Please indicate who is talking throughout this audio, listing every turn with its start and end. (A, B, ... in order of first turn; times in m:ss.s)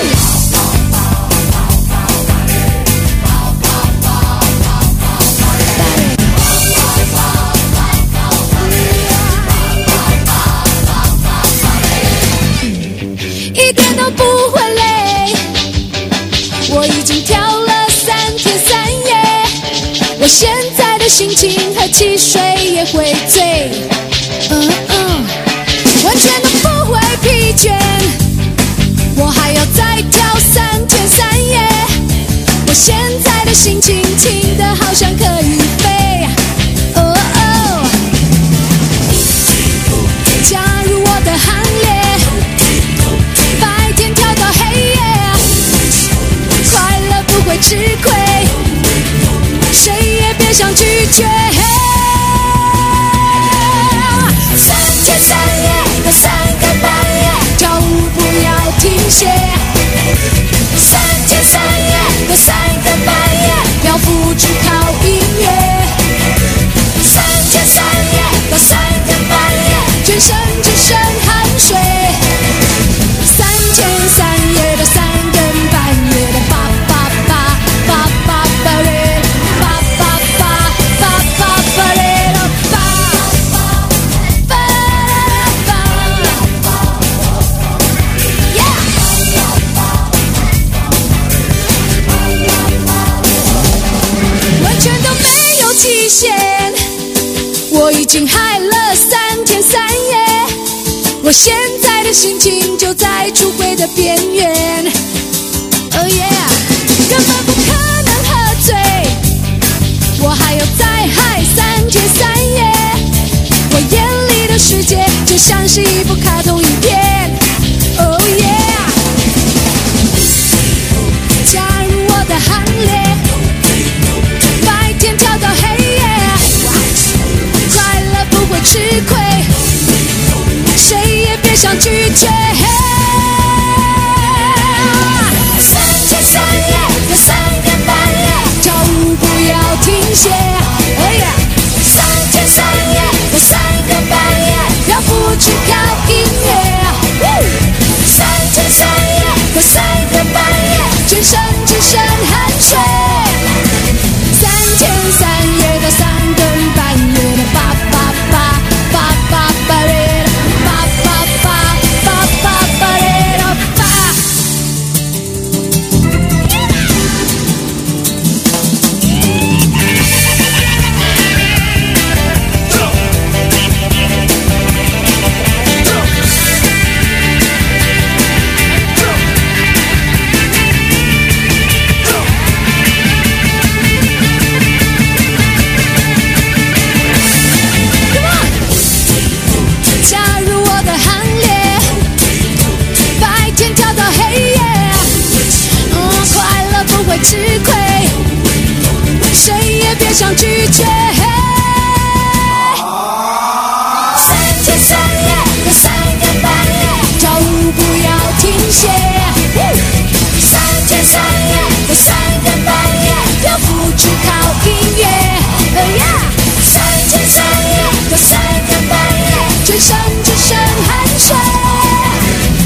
0:08.8-0:09.5 A
0:13.5-0:15.4 A
0:16.6-0:19.5 A
0:20.2-0:23.8 A
0:24.5-0:25.4 A
0:26.0-0:28.2 A
0:29.1-0:31.9 A
0:32.6-0:36.3 A
0:36.9-0:38.0 A
0:40.4-0:42.4 A
0:43.5-0:45.4 A
0:46.6-0:48.6 A
0:49.7-0:59.6 A
1:00.8-1:05.9 A
1:07.0-1:12.2 A
1:13.2-1:23.5 A
1:24.5-1:26.5 A
1:28.5-1:29.0 A
1:34.6-1:36.8 A
1:37.7-1:40.5 A
1:41.2-1:44.9 A
1:45.9-1:49.2 A
1:50.2-1:53.0 A
1:53.7-1:57.4 A
1:57.9-1:59.0 A
2:01.4-2:03.3 A
2:04.6-2:06.8 A
2:07.7-2:09.5 A
2:10.7-2:27.2 A
2:28.0-2:33.4 A
2:34.3-2:44.2 A
3:08.1-3:08.6 A
3:10.0-3:12.0 A
3:13.1-3:15.2 A
3:15.9-3:18.3 A
3:19.1-3:22.8 A
3:24.2-3:29.6 A
3:30.4-3:42.3 A